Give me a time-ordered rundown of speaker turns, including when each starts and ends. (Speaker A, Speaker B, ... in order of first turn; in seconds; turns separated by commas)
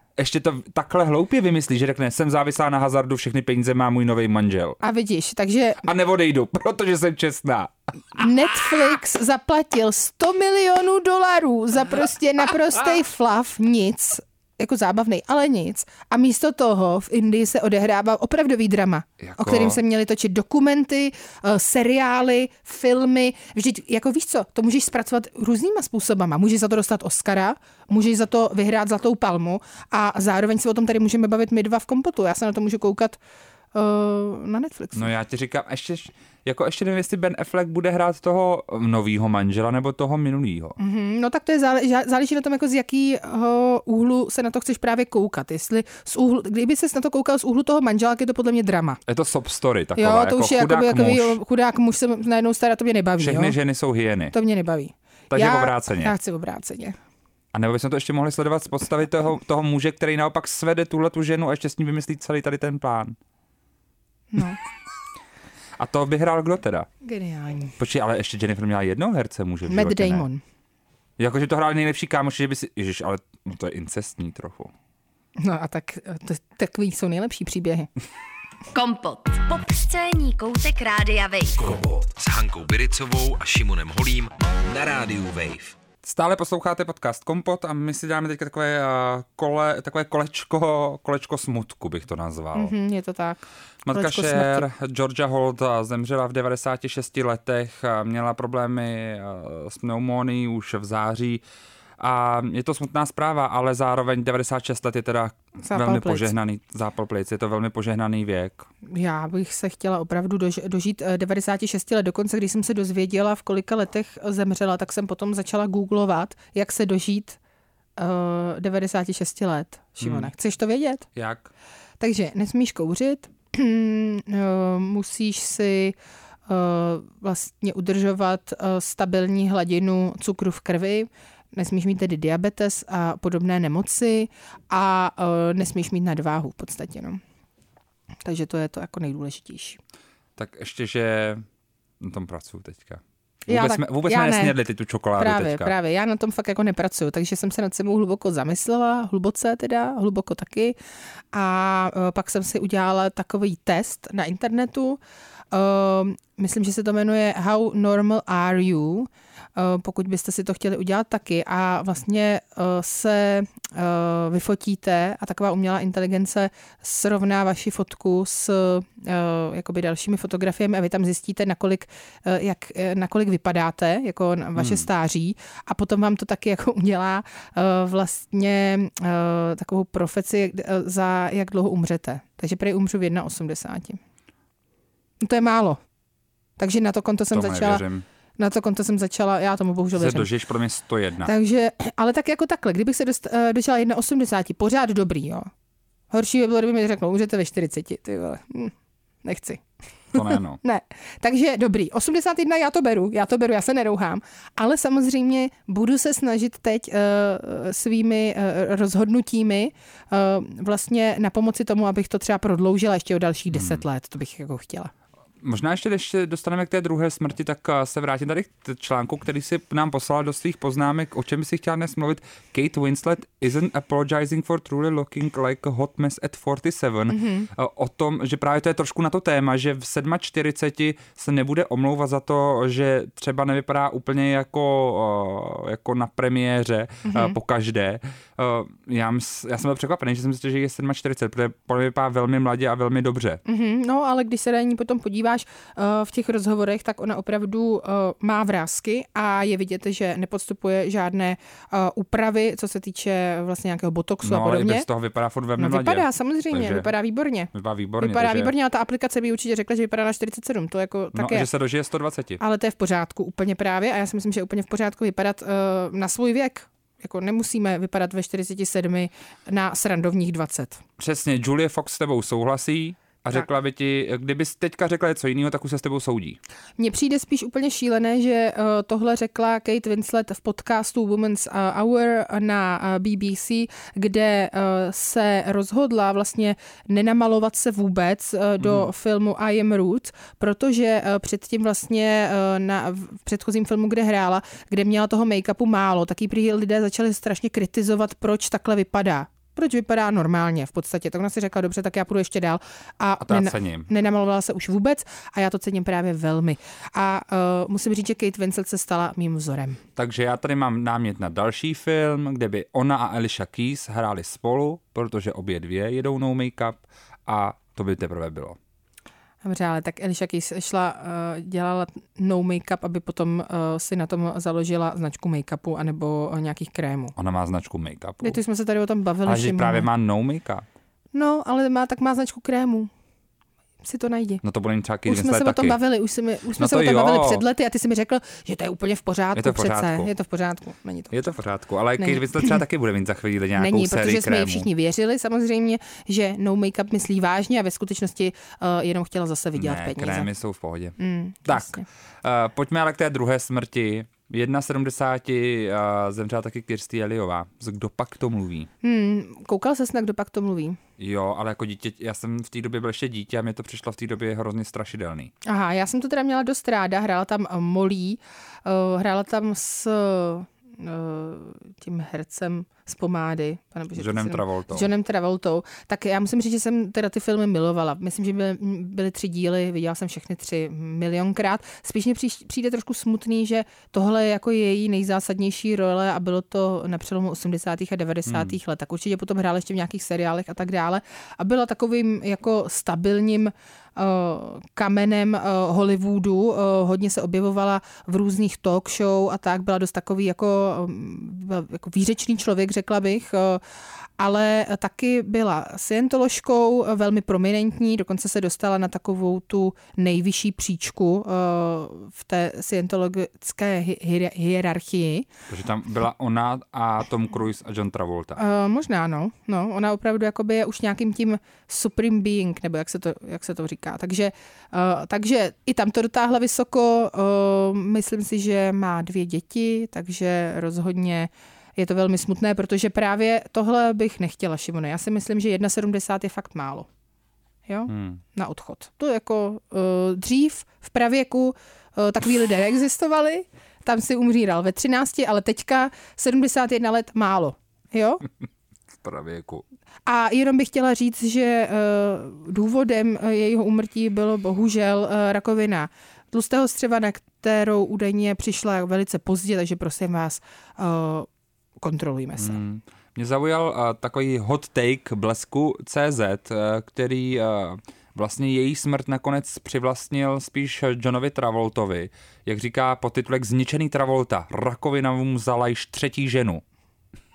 Speaker A: 0.2-4.8, Speaker B: 4.8-5.8, Speaker A: 5.8-8.7, Speaker B: 8.2-33.2, Speaker A: 19.2-19.8, Speaker B: 33.7-35.1, Speaker A: 34.9-40.8, Speaker B: 40.8-49.0, Speaker A: 49.1-51.4, Speaker B: 50.0-53.5, Speaker A: 53.2-54.3, Speaker B: 54.3-57.0, Speaker A: 55.3-56.1, Speaker A: 57.5-63.2, Speaker B: 64.3-64.6, Speaker A: 65.8-66.9, Speaker B: 67.0-67.7, Speaker A: 67.8-70.3, Speaker B: 69.7-70.4, Speaker A: 71.2-74.7, Speaker B: 75.4-77.9, Speaker C: 78.7-81.7, Speaker D: 81.6-85.7, Speaker A: 86.0-92.7, Speaker B: 92.5-94.7, Speaker A: 93.8-101.4, Speaker A: 102.0-108.7, Speaker B: 105.6-106.3, Speaker B: 108.8-117.4, Speaker B: 118.0-121.0, Speaker A: 120.0-120.3, Speaker A: 121.1-121.5, Speaker B: 122.0-125.9, Speaker B: 126.5-137.2, Speaker B: 138.2-139.8, Speaker A: 140.4-141.4, Speaker A: 142.0-145.7, Speaker B: 143.5-144.5, Speaker B: 145.2-150.7, Speaker B: 151.3-155.0, Speaker B: 155.5-184.0, Speaker A: 174.6-174.8, Speaker B: 185.2-185.8, Speaker B: 186.6-187.8, Speaker A: 187.3-188.0, Speaker B: 188.4-190.3, Speaker A: 189.9-191.3, Speaker B: 191.2-195.5, Speaker B: 196.1-198.7, Speaker B: 199.2-214.9, Speaker A: 200.1-200.6, Speaker A: 213.5-213.8, Speaker A: 215.4-243.4, Speaker B: 227.1-227.5, Speaker B: 237.1-237.4, Speaker B: 243.5-254.9, Speaker A: 254.2-256.9, Speaker B: 255.6-261.5, Speaker A: 257.5-258.5, Speaker A: 261.1-262.4, Speaker B: 262.4-270.8, Speaker A: 271.0-276.4, Speaker B: 276.8-309.8, Speaker A: 288.6-288.9, Speaker A: 303.2-303.9, Speaker A: 310.0-318.6, Speaker B: 319.4-327.1, Speaker A: 327.1-328.4, Speaker B: 328.2-329.9, Speaker A: 329.2-330.6, Speaker B: 331.1-332.9, Speaker B: 333.8-334.4, Speaker A: 334.4-335.8, Speaker B: 335.1-341.1, Speaker A: 336.6-337.4, Speaker A: 339.3-340.1, Speaker A: 341.1-344.7, Speaker B: 342.0-342.6, Speaker B: 343.6-350.3, Speaker A: 349.5-358.7, Speaker B: 351.0-351.8, Speaker B: 358.8-360.8, Speaker A: 361.0-365.3, Speaker B: 365.4-403.6, Speaker A: 373.9-374.9, Speaker A: 388.3-388.6, Speaker B: 404.2-415.3, Speaker A: 415.5-418.4, Speaker B: 418.4-436.9, Speaker B: 437.7-448.2, Speaker A: 437.9-438.2, Speaker A: 449.0-449.6, Speaker B: 450.1-461.3, Speaker B: 461.8-462.6, Speaker A: 462.4-476.6